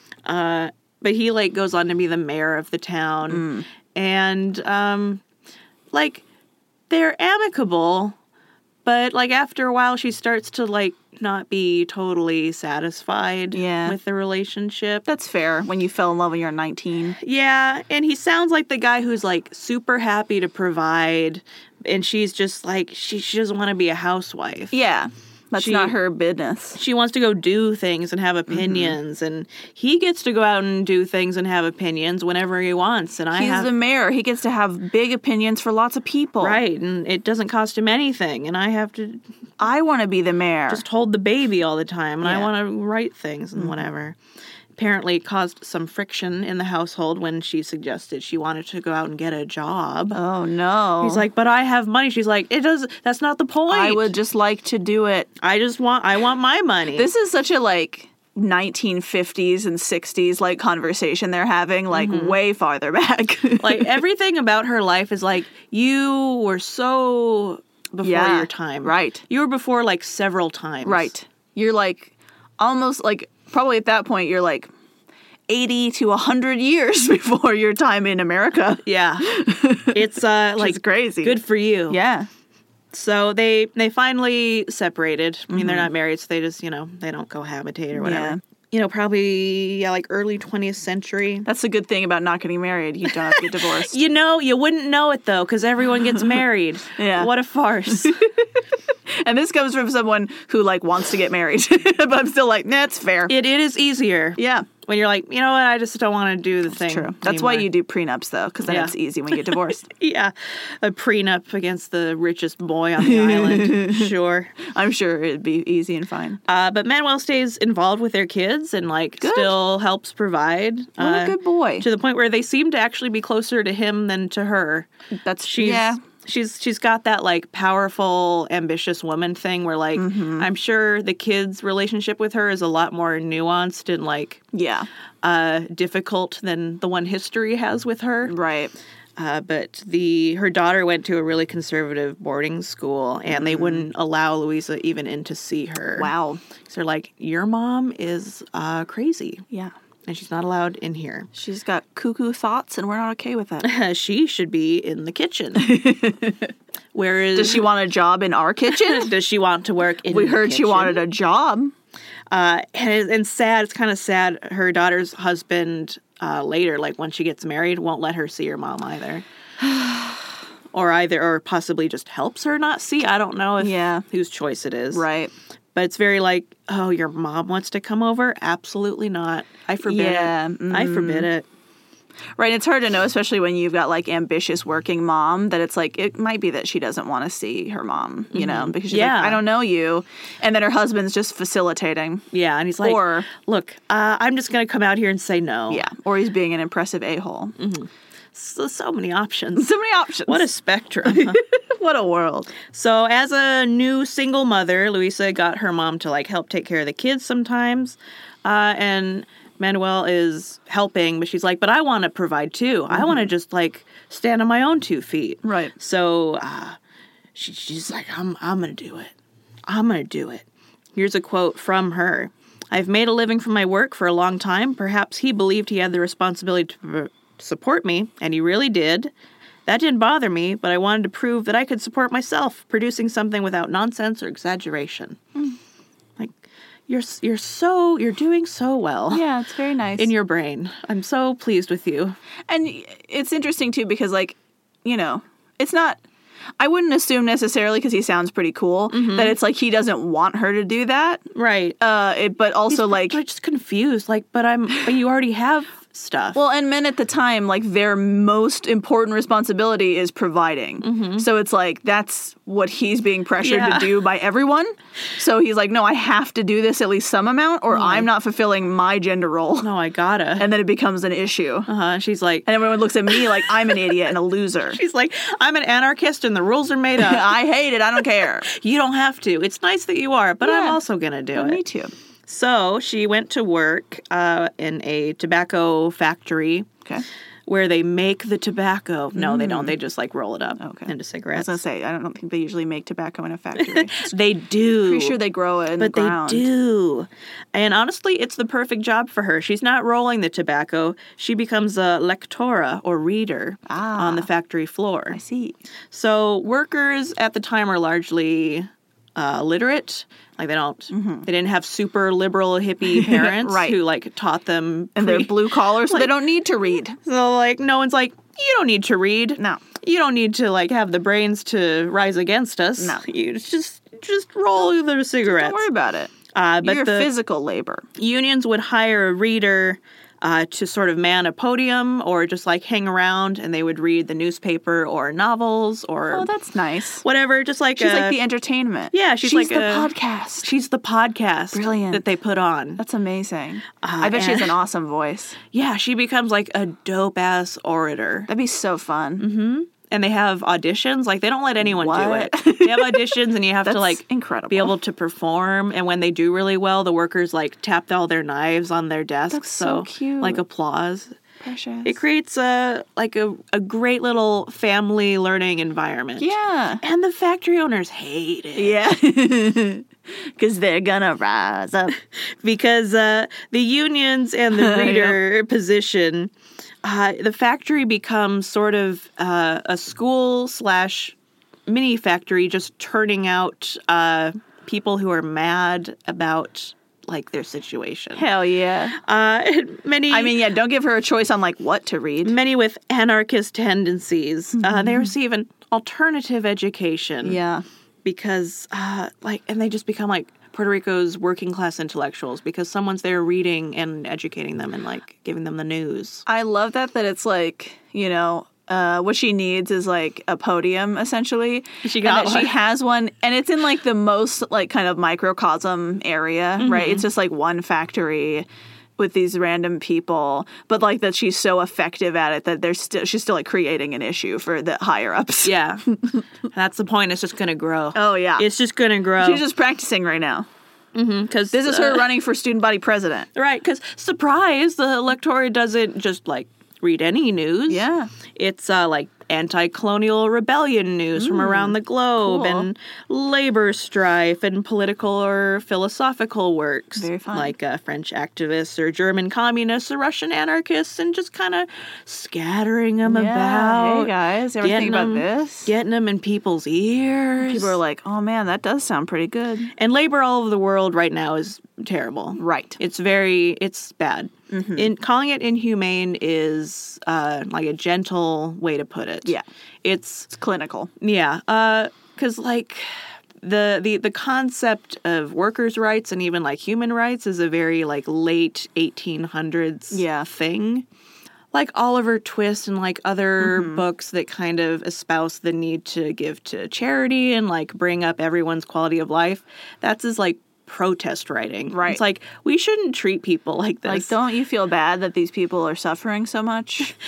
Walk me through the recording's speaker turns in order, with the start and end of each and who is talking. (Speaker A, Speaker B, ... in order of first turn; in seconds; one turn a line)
Speaker A: 0.2-5.2
Speaker B: 3.3-3.6
Speaker A: 5.9-6.2
Speaker A: 6.9-8.2
Speaker A: 8.8-15.0
Speaker B: 13.5-14.0
Speaker B: 15.1-17.2
Speaker A: 17.2-24.7
Speaker B: 24.7-26.8
Speaker A: 25.6-25.9
Speaker A: 26.8-33.7
Speaker B: 28.5-28.9
Speaker B: 33.3-36.6
Speaker A: 36.4-39.2
Speaker B: 39.6-40.8
Speaker A: 40.7-44.2
Speaker B: 42.2-42.5
Speaker A: 44.8-50.2
Speaker B: 50.1-51.2
Speaker A: 51.0-54.1
Speaker B: 53.7-55.3
Speaker A: 55.4-57.1
Speaker B: 56.9-64.0
Speaker A: 61.9-62.4
Speaker A: 63.6-71.1
Speaker B: 68.0-69.2
Speaker B: 70.8-74.7
Speaker B: 75.5-82.3
Speaker A: 78.8-79.3
Speaker A: 79.9-82.0
Speaker A: 82.9-91.5
Speaker B: 85.5-85.9
Speaker B: 87.9-88.4
Speaker B: 91.4-94.0
Speaker A: 93.2-98.2
Speaker B: 96.9-97.3
Speaker B: 97.9-98.5
Speaker B: 99.1-103.3
Speaker A: 103.3-107.7
Speaker B: 104.4-104.7
Speaker B: 106.8-109.9
Speaker A: 108.6-114.6
Speaker B: 113.0-116.4
Speaker A: 116.5-124.9
Speaker B: 119.2-119.6
Speaker B: 121.0-121.8
Speaker B: 125.2-126.0
Speaker A: 125.4-134.4
Speaker B: 129.9-130.5
Speaker B: 134.5-134.9
Speaker A: 135.2-138.3
Speaker B: 138.2-138.7
Speaker A: 139.2-146.1
Speaker B: 143.3-143.8
Speaker B: 145.9-146.4
Speaker A: 146.6-149.4
Speaker A: 150.1-151.3
Speaker B: 151.3-153.7
Speaker A: 153.6-155.7
Speaker B: 155.5-156.5
Speaker A: 156.9-157.7
Speaker B: 157.3-159.1
Speaker A: 158.7-161.0
Speaker B: 160.1-161.7
Speaker A: 162.3-169.2
Speaker B: 169.7-170.1
Speaker A: 170.7-175.0
Speaker B: 173.6-174.0
Speaker B: 174.9-175.3
Speaker A: 175.7-181.4
Speaker B: 179.8-181.3
Speaker B: 182.4-192.2
Speaker A: 188.3-189.4
Speaker A: 192.3-195.8
Speaker B: 192.8-193.3
Speaker B: 195.7-197.6
Speaker A: 197.6-199.7
Speaker B: 199.6-200.5
Speaker A: 200.3-201.4
Speaker B: 201.0-202.6
Speaker A: 202.7-216.8
Speaker B: 215.4-215.7
Speaker A: 217.3-219.1
Speaker A: 219.7-229.1
Speaker A: 229.7-235.2
Speaker A: 236.9-239.2
Speaker B: 239.1-240.1
Speaker A: 240.0-242.1
Speaker B: 242.5-246.0
Speaker B: 246.6-251.2
Speaker A: 248.9-249.3
Speaker A: 251.3-251.8
Speaker B: 251.8-253.2
Speaker A: 252.7-256.4
Speaker B: 256.3-269.7
Speaker A: 260.8-261.3
Speaker A: 263.4-263.9
Speaker A: 267.7-268.1
Speaker A: 269.6-270.5
Speaker B: 270.4-271.7
Speaker A: 271.7-272.5
Speaker B: 272.4-274.8
Speaker A: 274.7-277.3
Speaker B: 277.0-278.5
Speaker A: 278.4-281.6
Speaker B: 280.4-280.8
Speaker B: 281.3-281.9
Speaker A: 282.3-286.7
Speaker A: 287.5-291.6
Speaker B: 289.1-289.7
Speaker B: 290.6-294.1
Speaker A: 293.6-295.2
Speaker B: 294.8-296.5
Speaker A: 295.8-305.2
Speaker B: 303.6-304.3
Speaker B: 305.1-305.6
Speaker A: 305.9-316.1
Speaker B: 310.9-311.3
Speaker B: 312.9-313.8
Speaker B: 314.9-317.0
Speaker A: 317.0-325.7
Speaker B: 322.8-323.0
Speaker B: 325.2-327.9
Speaker A: 326.3-327.1
Speaker A: 327.9-336.3
Speaker B: 336.1-337.0
Speaker A: 337.0-338.2
Speaker B: 337.8-340.5
Speaker A: 338.9-339.9
Speaker A: 340.4-342.8
Speaker B: 341.5-342.0
Speaker B: 342.8-345.4
Speaker A: 343.8-344.6
Speaker A: 345.5-348.3
Speaker B: 348.3-349.3
Speaker A: 349.2-361.1
Speaker B: 351.6-354.7
Speaker B: 359.3-360.4
Speaker B: 361.4-362.0
Speaker A: 361.8-368.8
Speaker B: 366.2-366.8
Speaker B: 368.5-371.9
Speaker A: 372.2-376.3
Speaker B: 374.5-375.1
Speaker A: 376.8-381.1
Speaker A: 381.7-388.2
Speaker B: 388.1-389.0
Speaker A: 388.9-390.4
Speaker B: 390.1-392.3
Speaker A: 392.2-397.4
Speaker B: 394.6-395.1
Speaker B: 397.2-397.6
Speaker A: 398.0-406.2
Speaker B: 406.2-426.2
Speaker A: 411.8-412.5
Speaker A: 416.6-417.1
Speaker A: 425.4-425.8
Speaker A: 426.5-429.4
Speaker B: 427.9-428.5
Speaker B: 429.2-430.5
Speaker A: 430.9-432.1
Speaker B: 431.5-433.3
Speaker A: 433.3-457.8
Speaker B: 437.7-438.1
Speaker B: 441.1-442.7
Speaker B: 446.9-447.5
Speaker B: 453.0-455.7
Speaker B: 457.4-459.7
Speaker A: 459.7-470.3
Speaker B: 462.4-462.8
Speaker B: 464.5-464.9
Speaker B: 470.3-470.9
Speaker A: 471.0-480.9
Speaker B: 479.9-480.3
Speaker A: 481.5-494.1
Speaker B: 483.4-483.8
Speaker B: 491.7-492.0
Speaker B: 493.9-496.9